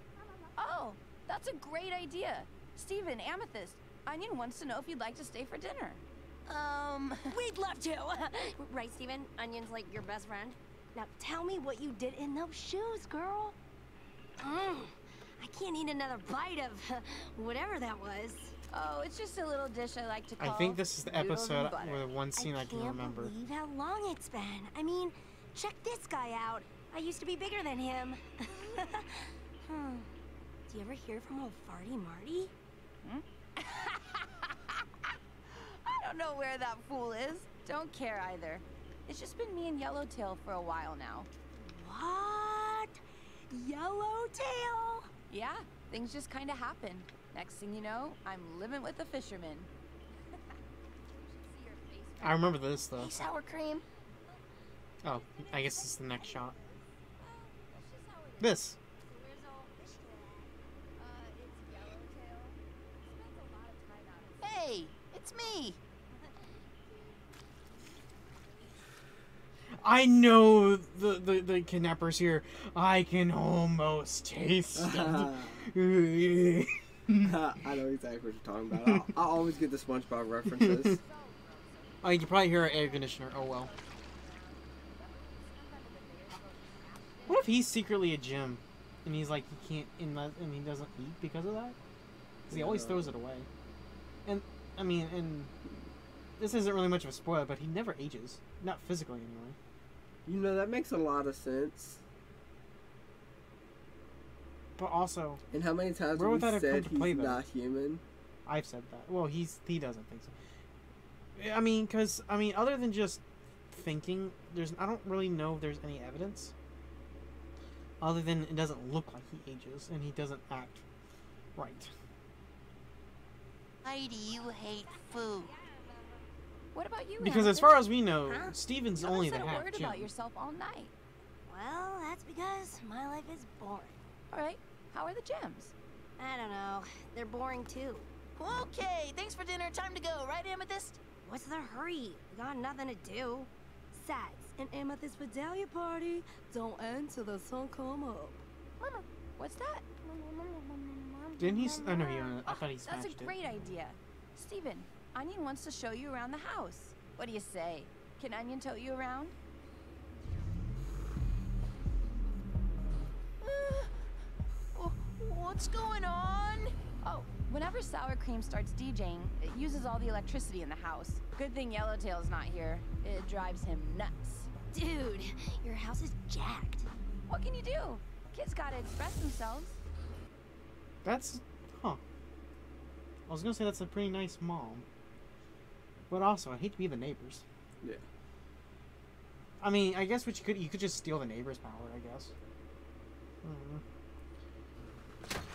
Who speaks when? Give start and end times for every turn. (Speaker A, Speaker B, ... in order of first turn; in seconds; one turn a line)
Speaker A: 0.6-6.0
Speaker B: 6.5-7.4
Speaker C: 7.3-13.6
Speaker C: 14.4-18.5
Speaker A: 18.7-22.1
Speaker D: 20.4-23.3
Speaker C: 22.4-30.1
Speaker C: 30.7-32.5
Speaker A: 33.0-34.8
Speaker A: 35.5-41.3
Speaker C: 41.6-45.1
Speaker A: 45.3-49.7
Speaker A: 51.1-53.3
Speaker D: 52.2-53.1
Speaker B: 53.0-53.8
Speaker D: 55.0-56.5
Speaker A: 55.1-59.7
Speaker D: 58.4-58.8
Speaker C: 59.2-60.5
Speaker A: 61.0-64.7
Speaker B: 64.4-65.8
Speaker D: 69.8-77.3
Speaker E: 74.7-75.7
Speaker E: 77.2-81.0
Speaker D: 78.8-79.1
Speaker D: 80.5-81.0
Speaker A: 80.8-87.5
Speaker D: 82.0-83.7
Speaker D: 87.3-91.8
Speaker E: 92.5-93.2
Speaker D: 92.5-93.5
Speaker D: 94.2-95.5
Speaker D: 96.4-99.6
Speaker E: 100.3-102.0
Speaker D: 104.8-105.4
Speaker E: 105.5-108.0
Speaker D: 106.2-107.4
Speaker D: 108.5-110.3
Speaker D: 111.3-116.5
Speaker D: 118.0-120.8
Speaker D: 121.6-121.9
Speaker B: 123.8-125.5
Speaker A: 126.7-127.9
Speaker D: 127.2-130.1
Speaker C: 128.3-128.6
Speaker A: 128.9-130.9
Speaker C: 131.5-134.0
Speaker A: 134.3-135.7
Speaker C: 136.2-138.1
Speaker B: 138.4-141.0
Speaker C: 141.2-148.4
Speaker A: 148.8-149.8
Speaker C: 150.0-152.2
Speaker D: 151.4-153.4
Speaker A: 152.4-159.3
Speaker B: 163.4-164.0
Speaker B: 164.7-166.7
Speaker A: 167.0-174.5
Speaker C: 174.7-176.9
Speaker A: 177.3-179.8
Speaker D: 181.0-182.0
Speaker D: 183.3-184.8
Speaker D: 186.1-187.4
Speaker D: 189.6-192.3
Speaker D: 193.4-193.8